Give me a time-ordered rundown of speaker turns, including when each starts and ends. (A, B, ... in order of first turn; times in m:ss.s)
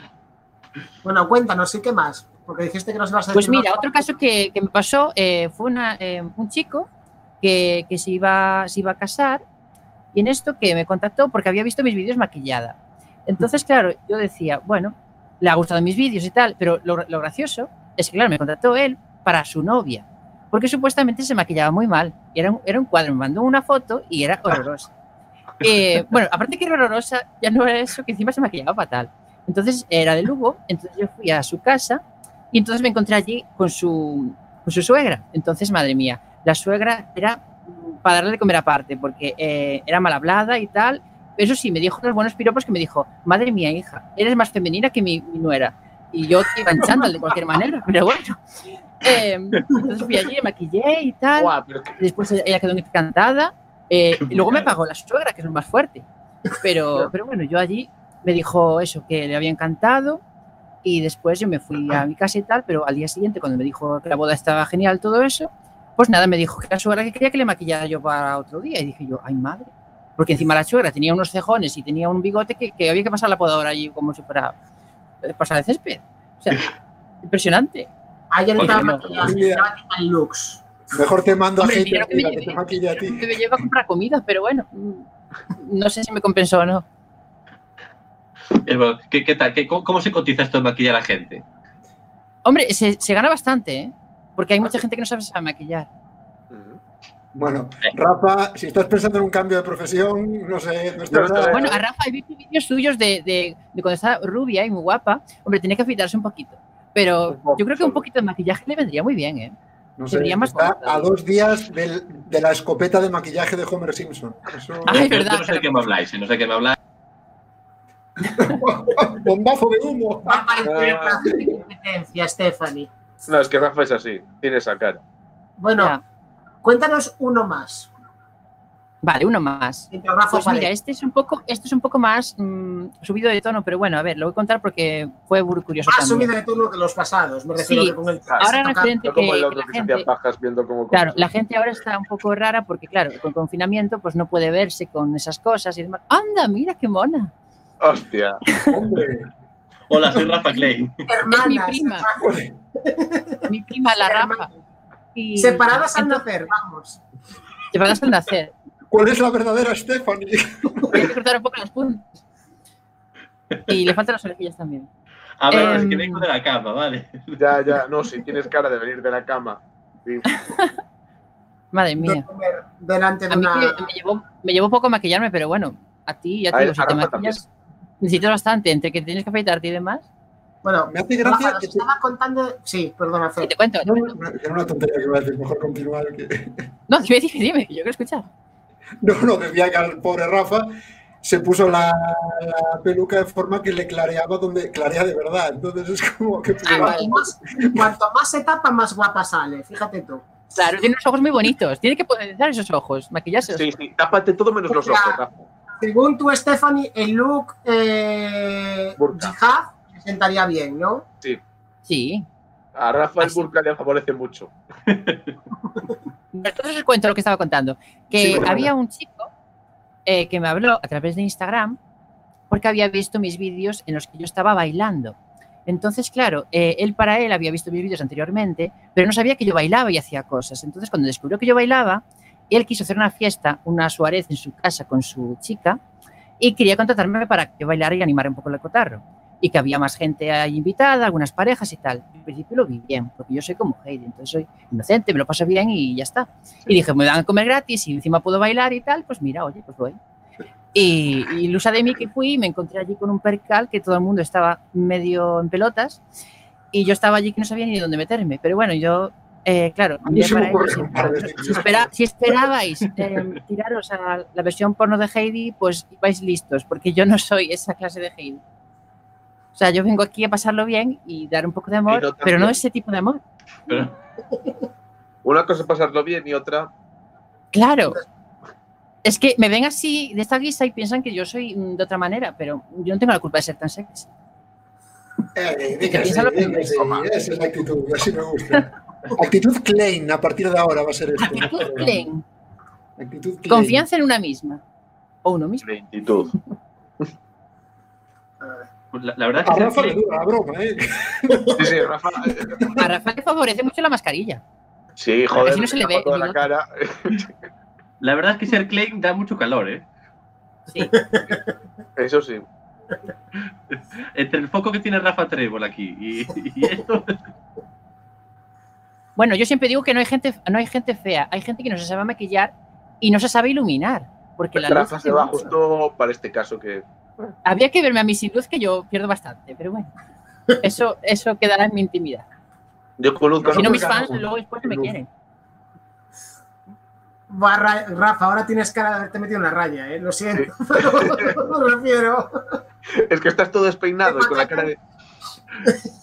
0:01.0-0:04.1 A
0:03.3-0:06.9 B
0:07.4-0:09.4 B
0:10.1-0:12.8 B
0:13.3-0:24.9 B
0:25.6-0:48.4 B
0:49.0-0:56.1 B
0:51.4-0:52.0 C
0:54.3-0:54.6 D
0:56.6-1:00.2 B
1:00.8-1:14.6 B
1:15.2-1:16.7 B
1:17.2-1:17.9 B
1:18.3-1:20.6 A
1:18.6-1:19.1 B
1:19.2-1:19.7 E
1:20.9-1:23.4 E
1:21.6-1:26.8 B
1:28.6-1:31.4 D
1:32.4-1:35.9 B
1:36.5-1:36.8 C
1:37.3-1:41.8 E
1:41.1-1:41.7 C
1:41.5-1:49.6 B
1:47.3-1:48.0 C
1:50.0-1:55.1 E
1:50.1-1:51.1 B
1:54.9-1:55.7 B
1:54.9-1:56.8 D
1:58.2-2:01.6 E
2:00.3-2:02.9 A
2:00.7-2:01.2 C
2:03.3-2:05.0 C
2:05.6-2:06.0 A
2:06.6-2:07.9 A
2:09.0-2:16.3 B
2:09.9-2:10.7 A
2:15.9-2:19.0 A
2:17.6-2:20.1 B
2:18.3-2:21.3 C
2:20.9-2:27.3 B
2:27.8-2:28.4 C
2:28.7-2:29.3 E
2:29.9-2:30.9 D
2:31.1-2:32.2 A
2:31.3-2:32.1 B
2:32.2-2:32.6 E
2:32.8-2:33.3 A
2:33.5-2:34.5 B
2:34.0-2:34.6 A
2:35.1-2:36.2 B
2:35.4-2:37.0 A
2:37.7-2:38.5 B
2:38.9-2:41.0 E
2:40.9-2:42.2 B
2:43.7-2:44.9 B
2:45.4-2:47.4 D
2:45.5-2:46.2 B
2:47.4-2:50.3 C
2:50.3-2:50.7 B
2:51.7-2:52.2 B
2:52.0-2:53.9 A
2:53.3-2:57.4 B
2:56.5-2:57.4 C
2:58.0-3:00.0 B
3:00.6-3:03.5 A
3:00.9-3:01.8 E
3:03.4-3:04.1 B
3:03.8-3:06.6 E
3:06.9-3:08.3 B
3:09.0-3:10.7 E
3:11.2-3:17.9 E
3:16.6-3:17.0 B
3:16.7-3:20.2 A
3:20.5-3:23.7 B
3:23.5-3:25.5 C
3:24.7-3:25.2 A
3:25.8-3:31.1 A
3:29.0-3:29.4 C
3:31.9-3:32.3 B
3:32.8-3:34.5 C
3:33.2-3:33.5 B
3:34.9-3:35.3 D
3:36.3-3:39.3 B
3:38.1-3:38.7 E
3:38.2-3:38.7 C
3:40.1-3:41.8 B
3:42.5-3:55.8 B
3:56.4-4:10.0 B
4:10.7-4:16.0 B
4:16.7-4:28.4 B
4:20.0-4:22.4 E
4:29.6-4:33.2 B
4:31.9-4:32.6 C
4:35.2-4:36.7 C
4:37.5-4:38.0 B
4:39.0-4:44.1 B
4:45.4-4:52.1 E
4:45.8-4:46.7 B
4:51.2-4:52.2 B
4:53.0-4:53.8 E
4:53.5-4:54.6 B
4:55.2-4:55.6 B
4:55.6-4:56.3 C
4:58.4-4:58.7 A
4:58.9-5:00.0 D
4:59.4-5:02.6 E
5:01.6-5:02.7 C
5:02.8-5:04.4 B
5:05.0-5:07.3 C
5:05.4-5:06.4 B
5:08.0-5:09.8 D
5:10.9-5:11.4 A
5:12.0-5:12.4 C
5:14.2-5:17.2 D
5:19.2-5:25.5 B
5:24.6-5:27.3 C
5:27.4-5:29.9 B
5:30.6-5:32.3 B
5:33.0-5:33.9 C
5:33.4-5:35.0 E
5:33.5-5:35.1 B
5:37.3-5:42.3 A
5:40.3-5:41.2 C
5:43.0-5:44.8 C
5:44.1-5:44.7 A